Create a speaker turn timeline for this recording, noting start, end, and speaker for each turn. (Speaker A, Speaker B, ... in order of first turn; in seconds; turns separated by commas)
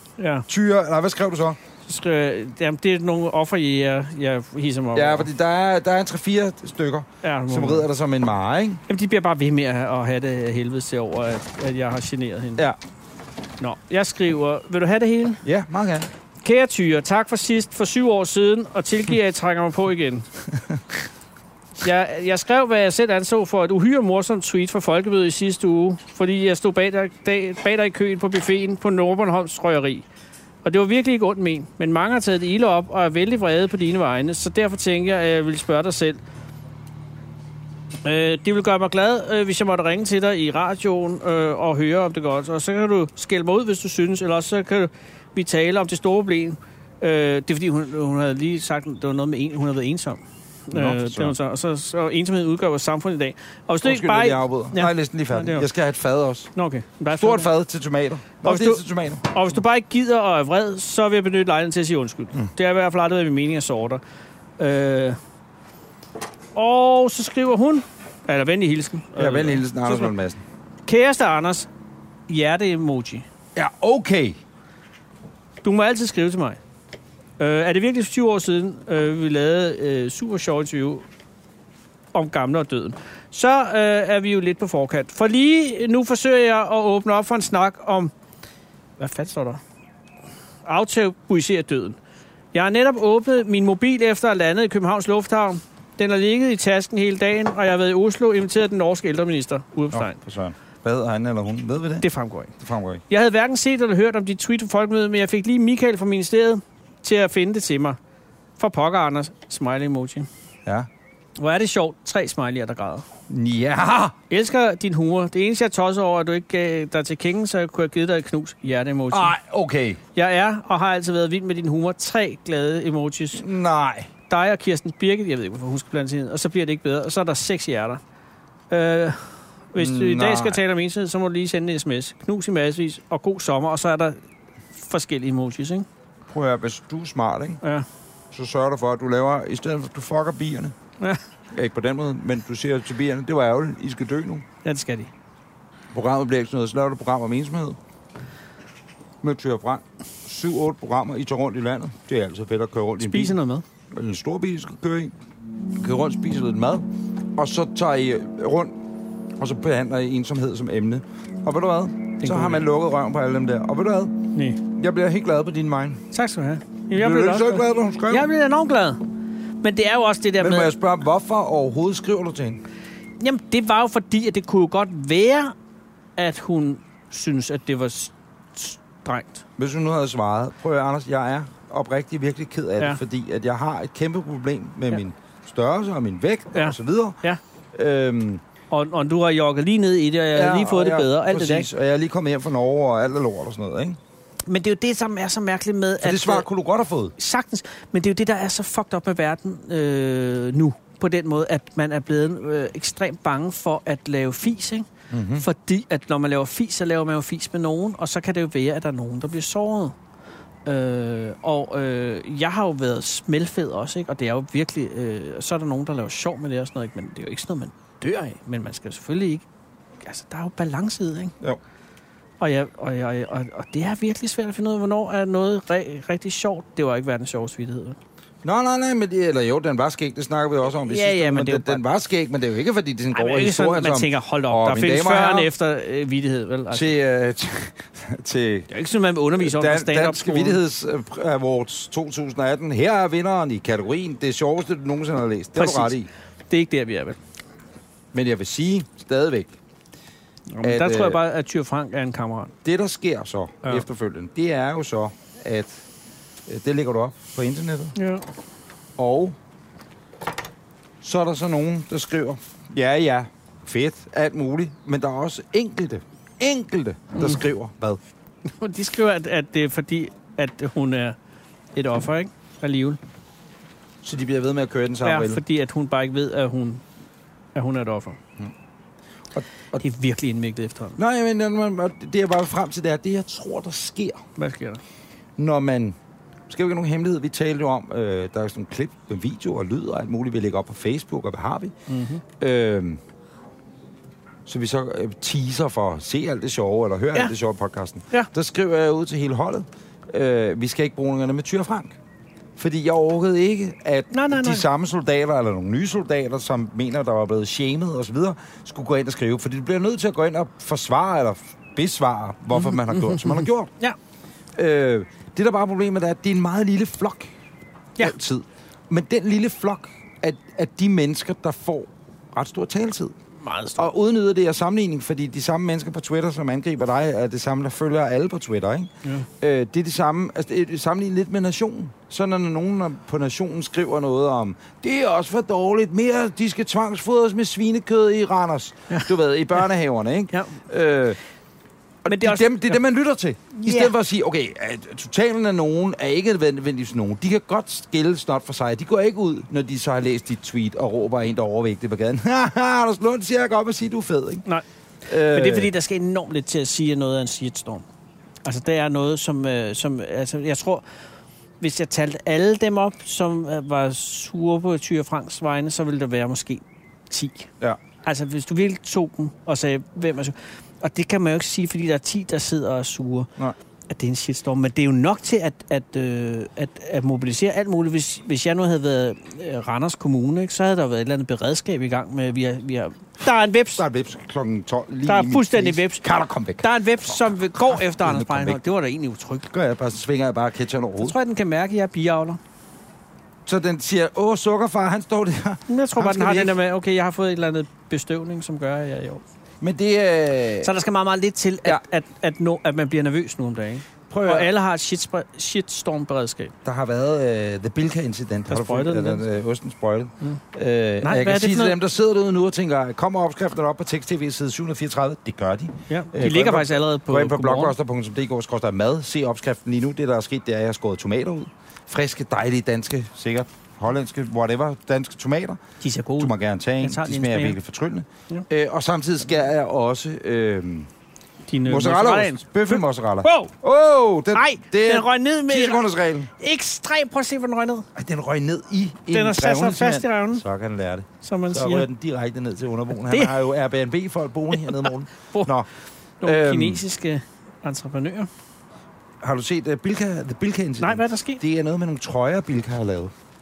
Speaker A: 0.2-0.5, Speaker B: 0.5-1.6, Speaker A: 1.9-5.3, Speaker B: 4.9-8.8, Speaker A: 7.2-7.9, Speaker A: 8.9-12.6, Speaker A: 13.6-15.4, Speaker B: 15.4-16.1, Speaker A: 16.4-20.3, Speaker A: 21.8-30.0, Speaker A: 30.6-36.2, Speaker A: 38.0-55.6, Speaker B: 50.7-51.4, Speaker B: 53.8-56.5, Speaker A: 56.5-57.5, Speaker B: 57.1-59.3, Speaker A: 58.4-64.0, Speaker A: 64.6-65.2, Speaker A: 66.5-70.1, Speaker B: 69.2-70.4, Speaker A: 70.8-71.7, Speaker A: 72.3-73.2, Speaker B: 73.5-74.4, Speaker A: 75.6-76.6, Speaker A: 77.4-81.0, Speaker A: 82.1-88.1, Speaker A: 89.0-89.6, Speaker A: 90.6-92.0, Speaker A: 92.5-100.1, Speaker B: 99.9-102.0, Speaker A: 102.0-102.5, Speaker B: 102.6-103.0, Speaker A: 103.1-108.0, Speaker A: 108.6-110.3, Speaker A: 111.4-113.0, Speaker B: 113.3-114.2, Speaker A: 114.3-119.3, Speaker B: 119.1-120.0, Speaker A: 120.1-123.4, Speaker B: 123.3-124.1, Speaker A: 124.3-128.0, Speaker A: 128.7-134.2, Speaker B: 129.8-130.6, Speaker A: 134.7-135.9, Speaker B: 136.3-137.6, Speaker B: 138.3-140.7, Speaker B: 141.5-144.4, Speaker A: 144.6-145.1, Speaker B: 145.9-147.8, Speaker B: 149.2-153.3, Speaker A: 153.0-153.6, Speaker B: 153.9-155.1, Speaker B: 155.8-158.8, Speaker B: 159.4-166.0, Speaker A: 162.2-162.7, Speaker A: 164.3-164.6, Speaker A: 166.1-169.0, Speaker B: 166.9-168.3, Speaker A: 169.6-170.7, Speaker B: 170.4-172.6, Speaker A: 173.2-175.5, Speaker A: 176.2-179.4, Speaker B: 179.6-187.2, Speaker A: 186.5-187.4, Speaker B: 187.7-188.4, Speaker A: 188.7-191.7, Speaker B: 190.3-194.0, Speaker A: 194.4-196.4, Speaker B: 196.0-197.1, Speaker A: 197.2-209.9, Speaker B: 205.1-205.4, Speaker A: 210.6-219.4, Speaker A: 220.0-221.3, Speaker A: 222.4-228.0, Speaker B: 228.4-235.5, Speaker A: 230.8-231.8, Speaker A: 233.1-236.9, Speaker B: 236.7-238.7, Speaker A: 238.7-240.6, Speaker B: 239.4-246.1, Speaker A: 245.6-245.9, Speaker A: 246.5-247.2, Speaker B: 248.1-249.5, Speaker A: 250.5-252.5, Speaker B: 250.6-251.2, Speaker B: 252.6-255.8, Speaker B: 256.5-257.9, Speaker A: 257.9-258.2, Speaker B: 259.0-259.4, Speaker B: 261.0-268.0, Speaker A: 267.1-267.4, Speaker A: 268.4-271.2, Speaker A: 271.7-273.0, Speaker B: 274.0-275.4, Speaker A: 275.0-276.8, Speaker A: 277.5-278.2, Speaker B: 279.3-279.8, Speaker A: 279.8-281.0, Speaker B: 281.0-284.2, Speaker A: 284.4-284.8, Speaker B: 285.4-285.9, Speaker B: 286.5-291.7, Speaker A: 291.9-292.2, Speaker B: 292.4-293.0, Speaker B: 294.4-302.0, Speaker B: 302.6-313.7, Speaker A: 304.1-304.6, Speaker A: 312.5-314.0, Speaker B: 314.6-317.3, Speaker B: 318.0-323.1, Speaker A: 323.4-323.9, Speaker B: 323.8-341.2, Speaker A: 340.3-340.6, Speaker B: 342.0-354.4, Speaker A: 342.1-342.8, Speaker A: 343.5-343.9, Speaker A: 354.4-357.8, Speaker B: 355.1-355.7, Speaker A: 358.4-360.8, Speaker A: 361.6-367.5, Speaker A: 368.0-373.3, Speaker A: 373.9-383.8, Speaker B: 383.8-388.6, Speaker A: 385.1-386.0, Speaker A: 386.6-389.5, Speaker B: 389.5-391.1, Speaker A: 391.0-392.4, Speaker B: 393.4-396.5, Speaker A: 395.7-399.2, Speaker B: 399.6-400.7, Speaker A: 400.6-406.5, Speaker B: 404.1-404.5, Speaker B: 406.6-425.6, Speaker A: 408.5-409.2, Speaker A: 411.0-411.8, Speaker A: 415.9-417.7, Speaker A: 425.8-427.6, Speaker B: 426.2-430.9, Speaker A: 431.5-433.5, Speaker B: 431.6-436.3, Speaker A: 434.3-435.9, Speaker A: 436.4-437.9, Speaker B: 437.9-445.7, Speaker A: 439.1-440.4, Speaker A: 441.2-441.9, Speaker A: 443.1-443.3, Speaker A: 444.6-445.5, Speaker A: 446.2-448.3, Speaker B: 446.2-446.8, Speaker B: 449.2-453.1, Speaker A: 450.8-451.4